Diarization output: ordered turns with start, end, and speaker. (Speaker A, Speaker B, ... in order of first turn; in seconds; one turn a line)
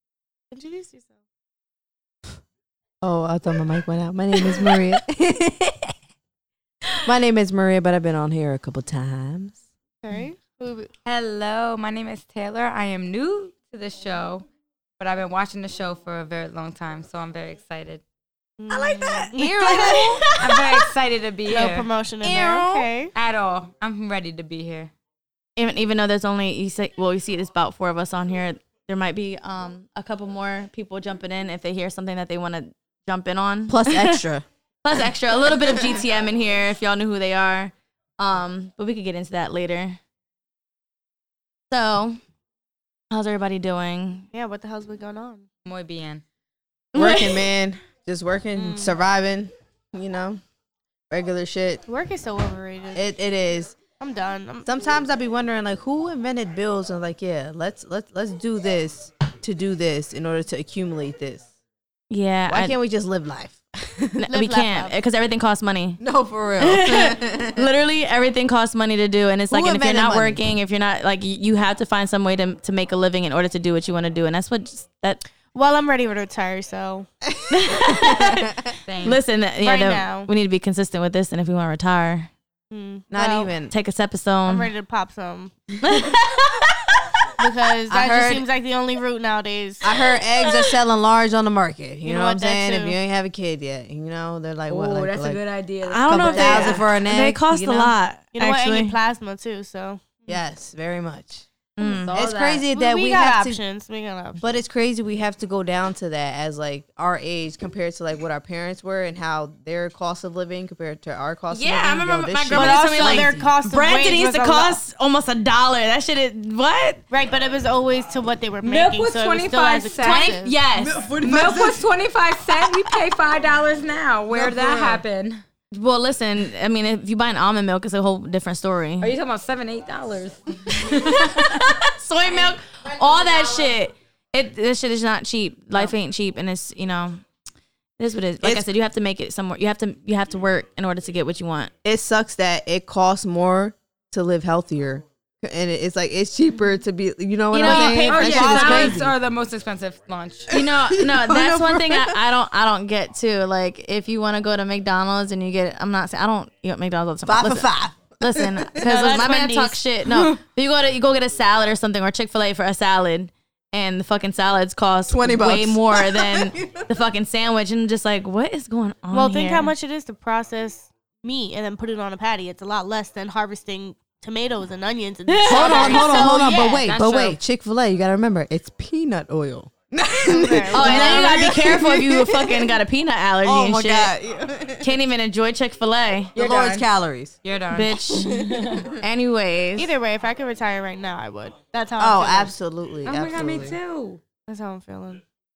Speaker A: 0.5-1.1
Speaker B: 3.0-5.9
Speaker B: 7.0-9.6
Speaker A: 10.0-10.9
Speaker C: 11.0-14.4
Speaker C: 15.0-18.0
Speaker A: 18.6-20.0
Speaker D: 18.7-20.6
Speaker B: 18.7-20.2
Speaker C: 20.4-21.9
Speaker A: 21.5-23.1
Speaker D: 22.2-22.9
Speaker C: 23.1-24.9
Speaker D: 25.6-34.2
Speaker B: 33.7-34.4
Speaker D: 34.8-40.0
Speaker D: 41.7-42.2
Speaker D: 43.1-44.2
Speaker A: 44.3-45.4
Speaker C: 45.6-46.2
Speaker D: 46.9-47.3
Speaker B: 46.9-50.4
Speaker A: 48.5-48.9
Speaker B: 51.1-51.8
Speaker A: 51.9-53.1
Speaker B: 52.9-53.8
Speaker A: 54.0-54.7
Speaker B: 54.6-61.4
Speaker D: 62.1-62.8
Speaker B: 62.5-64.2
Speaker D: 64.2-66.0
Speaker A: 64.3-65.0
Speaker B: 66.0-67.7
Speaker D: 66.6-75.2
Speaker B: 69.5-70.4
Speaker A: 75.5-77.1
Speaker B: 77.4-78.7
Speaker D: 77.5-82.3
Speaker C: 78.8-79.2
Speaker A: 79.6-80.3
Speaker A: 82.7-83.5
Speaker B: 83.1-83.7
Speaker D: 83.7-84.7
Speaker A: 84.5-85.5
Speaker D: 85.8-86.7
Speaker A: 87.4-89.9
Speaker B: 87.9-88.4
Speaker B: 89.8-95.4
Speaker A: 92.0-93.0
Speaker C: 94.7-96.8
Speaker D: 95.8-99.0
Speaker B: 96.1-97.9
Speaker A: 98.3-100.4
Speaker B: 100.3-101.4
Speaker D: 101.8-102.1
Speaker C: 101.8-102.6
Speaker B: 102.1-103.6
Speaker A: 102.7-104.4
Speaker B: 104.4-113.5
Speaker D: 111.5-117.0
Speaker A: 112.5-114.8
Speaker A: 117.1-120.5
Speaker C: 118.6-120.3
Speaker D: 120.0-121.0
Speaker B: 120.8-121.8
Speaker C: 121.2-125.4
Speaker B: 124.3-125.0
Speaker D: 125.7-129.1
Speaker C: 129.0-131.7
Speaker D: 130.8-137.2
Speaker D: 138.0-141.7
Speaker B: 141.8-149.1
Speaker D: 147.5-149.0
Speaker C: 147.6-150.5
Speaker D: 150.5-157.7
Speaker B: 150.5-152.2
Speaker B: 157.2-158.9
Speaker D: 158.2-169.7
Speaker A: 158.8-159.8
Speaker B: 165.1-166.8
Speaker A: 169.1-176.8
Speaker D: 175.3-176.3
Speaker B: 175.4-182.8
Speaker C: 175.9-177.4
Speaker A: 180.2-181.4
Speaker D: 180.7-184.1
Speaker B: 183.4-184.9
Speaker D: 184.8-186.3
Speaker B: 186.3-187.4
Speaker C: 186.3-186.8
Speaker C: 187.4-188.9
Speaker D: 187.7-188.3
Speaker B: 188.3-188.8
Speaker D: 189.0-189.9
Speaker A: 189.8-192.5
Speaker B: 192.0-193.8
Speaker C: 193.0-194.2
Speaker A: 194.5-195.2